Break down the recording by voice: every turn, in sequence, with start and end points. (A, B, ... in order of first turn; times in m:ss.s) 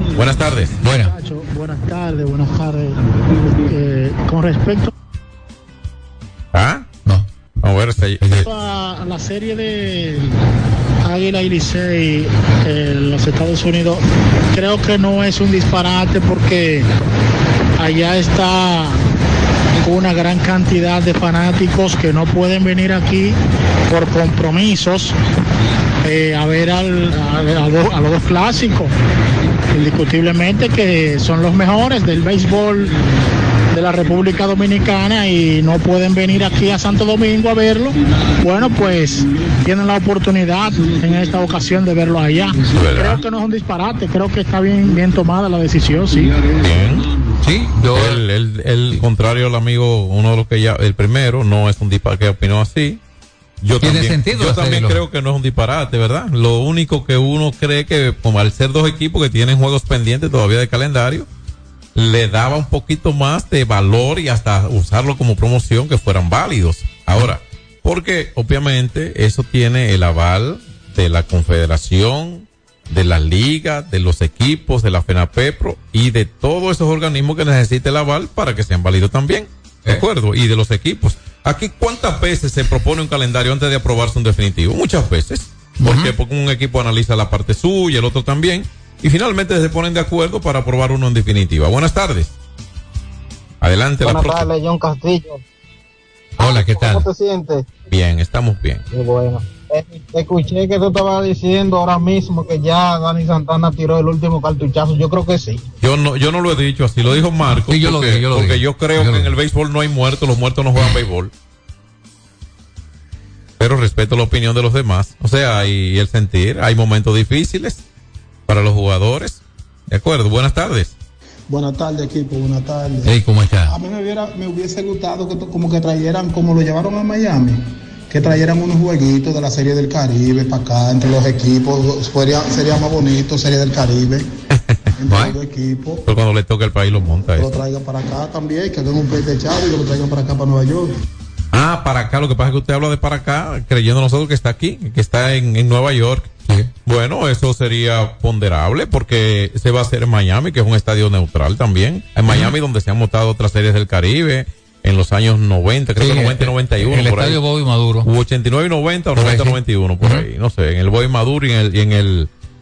0:00.2-0:00.8 A
0:00.8-0:01.1 B
0:01.0-0:03.0 C
0:03.6-0:04.9 C
0:06.5-0:06.9 A
0:07.6-0:08.5 A
0:08.2-0:08.5 B
0:08.4-0:10.4 C
0:11.0-0:16.9 C
0:17.8-0:19.0 C
0:19.8-0:23.4 C
0:23.9-0:25.2 C
0:26.0-0:28.9 C
0:29.7-0:32.9 C
0:33.7-0:46.5 C
0:42.8-0:43.2 A
0:46.6-0:47.1 A
0:47.4-0:48.2 B
0:47.8-0:53.0 A
0:53.6-1:01.3 A
0:53.8-0:55.0 B
1:02.0-1:32.3 A
1:25.8-1:26.1 B
1:33.6-1:34.5 A
1:34.0-1:35.4 D
1:36.4-1:37.7 D
1:36.4-1:37.1 B
1:37.9-1:38.8 A
1:38.9-1:45.6 D
1:45.8-1:51.3 A
1:47.7-1:49.4 B
1:53.6-1:57.8 A
1:58.5-2:00.9 A
2:01.5-2:02.9 E
2:03.0-2:03.8 B
2:03.7-2:07.5 E
2:08.1-2:14.2 E
2:14.5-2:14.9 A
2:15.1-2:15.4 B
2:15.1-2:15.8 E
2:16.1-2:17.6 A
2:17.4-2:20.8 E
2:21.5-2:26.3 A
2:26.9-2:37.4 A
2:32.3-2:32.5 B
2:36.0-2:38.1 B
2:38.0-2:42.3 A
2:39.2-2:40.3 B